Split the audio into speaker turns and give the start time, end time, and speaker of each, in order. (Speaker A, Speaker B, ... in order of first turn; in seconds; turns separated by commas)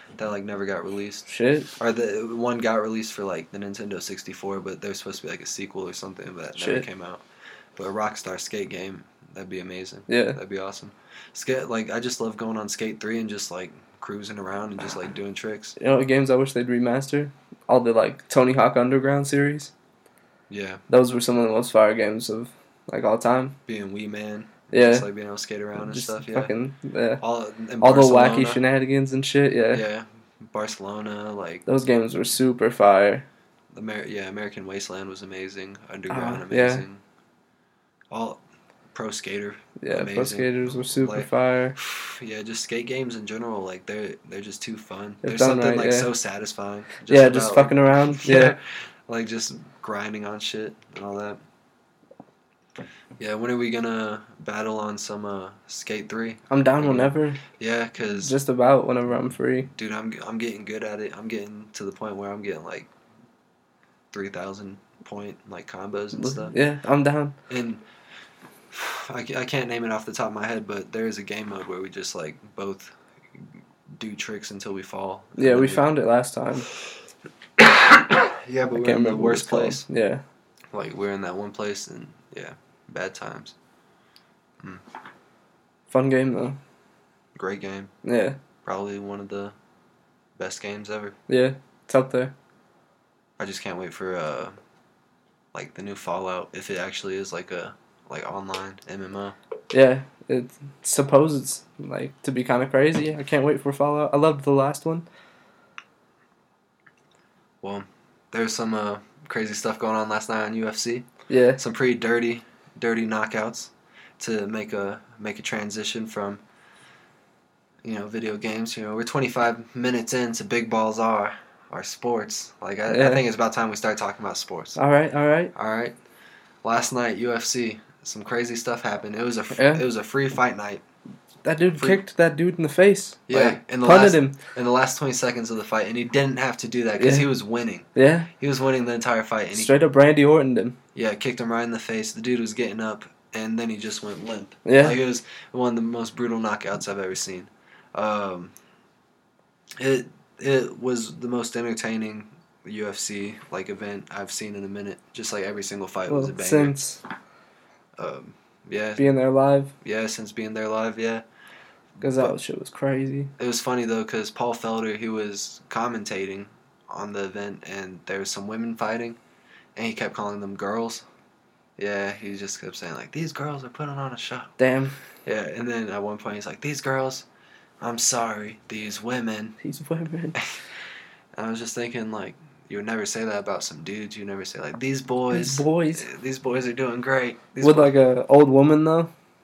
Speaker A: 0.2-7.2, Speaker B: 1.3-1.7, Speaker B: 6.6-6.9, Speaker A: 7.8-15.8, Speaker B: 10.1-10.4, Speaker B: 15.8-19.7, Speaker A: 20.5-20.8, Speaker B: 20.9-23.6, Speaker A: 23.7-26.5, Speaker B: 24.7-25.1, Speaker B: 25.8-27.2, Speaker A: 27.2-28.6, Speaker B: 27.8-29.8, Speaker A: 29.7-31.6, Speaker B: 31.7-33.3, Speaker A: 33.7-37.0, Speaker B: 36.1-36.8, Speaker A: 38.1-38.4, Speaker A: 38.9-51.4, Speaker B: 39.8-41.8, Speaker B: 45.2-46.1, Speaker B: 47.1-48.5, Speaker A: 53.2-58.4, Speaker B: 56.5-57.4, Speaker B: 58.2-59.7, Speaker A: 59.8-62.9, Speaker A: 64.1-66.5, Speaker B: 66.2-67.3, Speaker A: 67.5-67.8, Speaker A: 68.7-75.9, Speaker B: 75.4-76.7, Speaker A: 77.6-79.8, Speaker B: 78.7-80.2, Speaker A: 80.7-83.5, Speaker B: 85.9-86.6, Speaker A: 87.4-87.9, Speaker B: 88.0-88.4, Speaker A: 88.7-89.5, Speaker A: 90.4-91.2, Speaker B: 91.3-92.3, Speaker A: 93.4-94.5, Speaker A: 95.5-99.4, Speaker B: 99.7-105.1, Speaker A: 107.6-111.1, Speaker B: 111.3-111.6, Speaker A: 111.6-116.4, Speaker A: 117.8-124.8, Speaker B: 122.9-123.2, Speaker B: 124.8-125.5, Speaker A: 125.5-126.0, Speaker A: 126.6-130.8, Speaker B: 129.5-129.8, Speaker B: 131.4-134.4, Speaker A: 131.8-132.0, Speaker A: 133.3-139.8, Speaker B: 137.0-137.3, Speaker B: 137.9-138.3, Speaker B: 139.5-140.8, Speaker A: 140.9-148.5, Speaker B: 144.7-145.0, Speaker A: 149.8-156.8, Speaker B: 156.1-157.0, Speaker A: 158.0-159.0, Speaker B: 159.0-159.7, Speaker A: 159.8-161.2, Speaker A: 162.0-162.3, Speaker B: 162.0-163.3, Speaker A: 163.4-169.2, Speaker A: 169.8-171.1, Speaker A: 171.8-174.6, Speaker B: 174.6-175.0, Speaker A: 175.2-177.2, Speaker A: 177.8-179.6, Speaker B: 179.6-180.4, Speaker A: 180.4-180.6, Speaker A: 181.3-187.9, Speaker B: 185.3-186.1, Speaker B: 187.6-189.1